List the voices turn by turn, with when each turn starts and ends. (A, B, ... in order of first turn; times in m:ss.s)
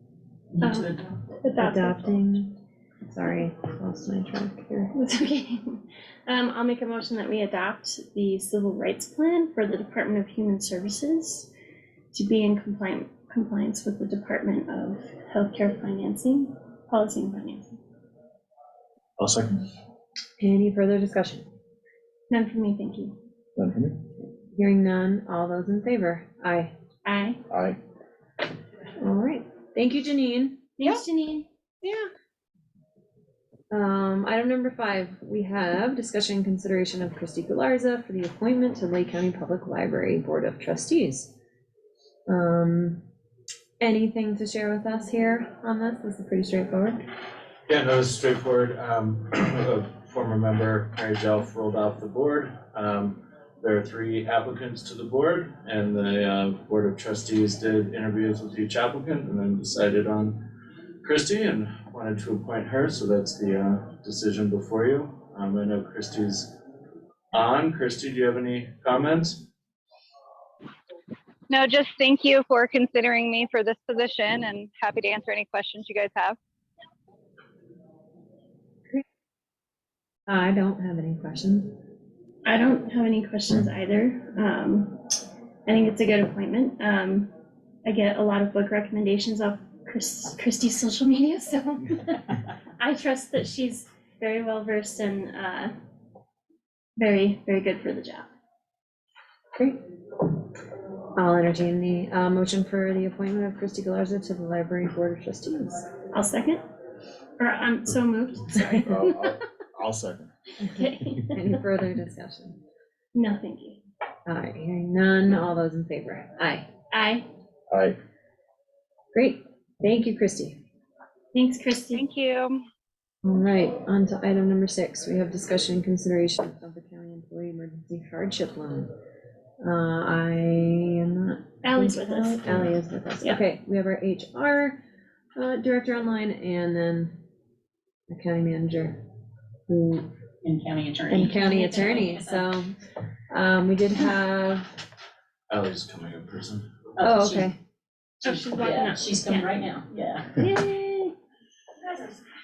0:00.6-0:02.3 A
0:01.6-0:04.9 B
0:04.9-0:11.5 A
0:12.1-0:17.8 A
0:19.2-0:19.6 C
0:20.4-0:21.4 B
0:22.3-0:23.2 A
0:23.6-0:24.0 C
0:24.5-0:26.7 B
0:27.0-0:27.4 A
0:27.5-0:27.8 C
0:29.0-0:30.6 B
0:30.8-0:31.5 A
0:33.7-0:41.3 B
0:42.3-0:43.0 B
0:43.8-0:47.0 B
0:47.7-1:00.4 D
1:01.0-1:06.5 D
1:07.3-1:09.4 D
1:11.5-1:16.4 E
1:20.3-1:21.8 B
1:22.4-1:25.0 A
1:25.7-1:27.3 A
1:27.8-1:35.7 A
1:37.0-1:38.3 A
1:41.2-1:45.9 B
1:46.1-1:46.6 A
1:47.4-1:49.2 A
1:48.8-1:50.3 C
1:50.6-1:51.4 A
1:51.3-1:52.6 B
1:53.1-1:53.8 A
1:54.3-1:56.7 B
1:56.9-1:57.3 A
1:57.7-1:58.0 C
1:59.1-2:00.6 B
2:01.3-2:02.0 A
2:02.0-2:02.6 E
2:03.2-2:08.9 B
2:09.6-2:14.8 B
2:11.6-2:13.4 A
2:15.4-2:17.2 B
2:18.1-2:19.0 B
2:19.7-2:20.1 B
2:20.4-2:22.5 F
2:21.1-2:22.7 B
2:23.3-2:24.8 B
2:25.5-2:26.7 D
2:27.0-2:27.5 F
2:27.0-2:27.6 B
2:28.2-2:30.4 F
2:28.2-2:29.7 A
2:30.3-2:31.1 A